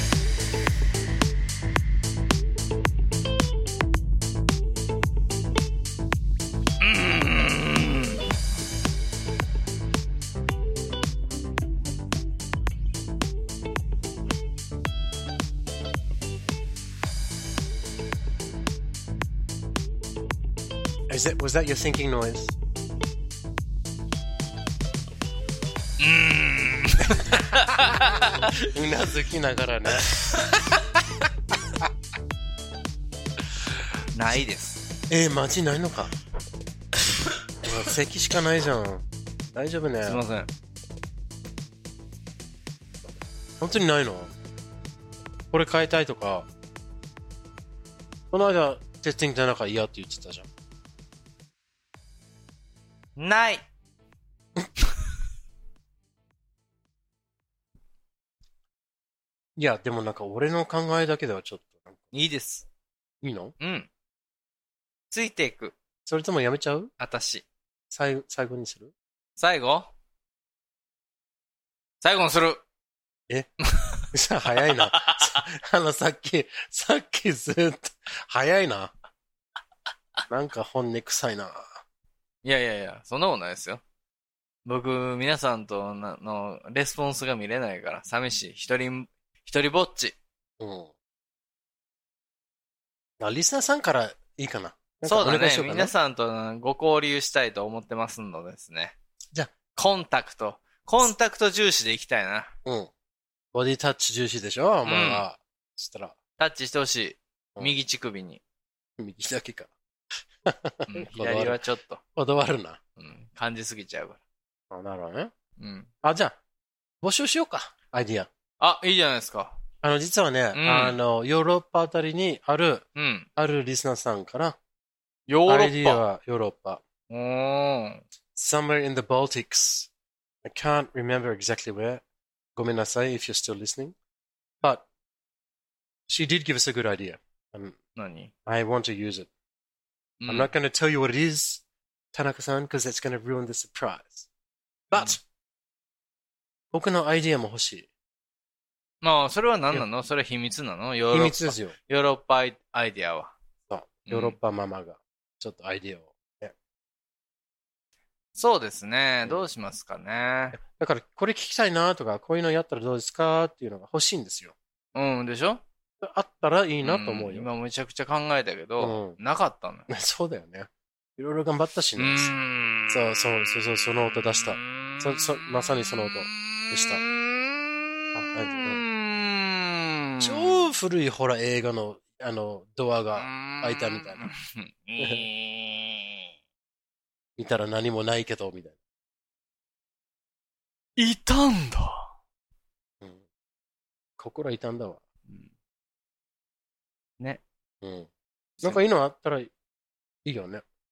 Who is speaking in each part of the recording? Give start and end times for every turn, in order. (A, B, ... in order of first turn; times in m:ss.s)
0:06.8-0:08.2 A
0:21.1-0:22.5 B
0:26.0-0:28.5 A
0:28.6-0:30.2 B
0:34.1-0:34.8 A
0:35.1-0:36.1 B
0:37.6-0:40.2 B
0:40.0-0:40.5 A
0:43.6-0:44.3 B
0:45.5-0:46.5 B
0:48.3-0:50.5 B
0:53.2-0:53.6 A
0:59.6-1:02.1 B
1:02.1-1:02.6 A
1:03.2-1:03.5 B
1:03.6-1:03.9 A
1:05.1-1:05.7 A
1:06.0-1:06.9 B
1:07.0-1:07.4 A
1:07.9-1:08.9 B
1:09.4-1:09.9 A
1:12.0-1:12.6 A
1:13.7-1:14.1 A
1:14.1-1:18.9 B
1:14.6-1:15.4 A
1:20.3-1:21.8 B
1:22.4-1:23.8 A
1:24.6-1:30.2 A
1:30.6-1:30.9 B
1:33.2-1:35.9 B
1:35.0-1:39.0 A
1:39.7-1:42.5 A
1:42.6-1:42.9 B
1:43.5-1:46.1 B
1:44.8-1:45.2 A
1:46.4-1:48.4 A
1:49.0-1:49.7 B
1:50.4-1:51.6 B
1:50.9-1:52.0 A
1:52.2-1:52.8 B
1:53.0-1:54.2 A
1:54.7-1:55.3 B
1:55.6-1:55.9 A
1:56.0-1:56.4 B
1:57.0-1:58.3 B
1:58.6-1:59.6 A
1:59.8-2:02.8 B
2:00.5-2:01.0 A
2:03.0-2:03.3 A
2:03.4-2:04.6 B
2:05.3-2:06.0 A
2:05.4-2:06.8 B
2:07.1-2:08.0 A
2:08.4-2:09.9 B
2:10.4-2:12.0 B
2:12.6-2:13.9 B
2:16.1-2:17.8 B
2:18.0-2:18.3 A
2:18.4-2:19.3 B
2:20.2-2:20.5 A
2:20.3-2:24.3 B
2:24.9-2:25.2 B
2:26.7-2:27.9 B
2:29.0-2:33.4 A
2:31.1-2:31.7 B
2:33.7-2:36.5 B
2:34.1-2:34.4 A
2:38.3-2:40.6 A
2:40.5-2:44.6 B
2:44.9-2:45.6 A
2:46.0-2:47.5 B
2:46.8-2:49.9 A
2:48.8-2:49.2 B
2:49.9-2:52.4 B
2:52.0-2:53.0 A
2:52.9-2:57.0 B
2:56.7-2:57.1 A
2:58.1-2:58.8 B
2:58.5-3:00.7 A
3:00.2-3:04.3 B
3:03.2-3:06.2 A
3:05.0-3:05.2 B
3:07.4-3:08.8 B
3:11.0-3:12.1 A
3:14.2-3:15.0 B
3:17.8-3:19.5 B
3:20.2-3:20.6 B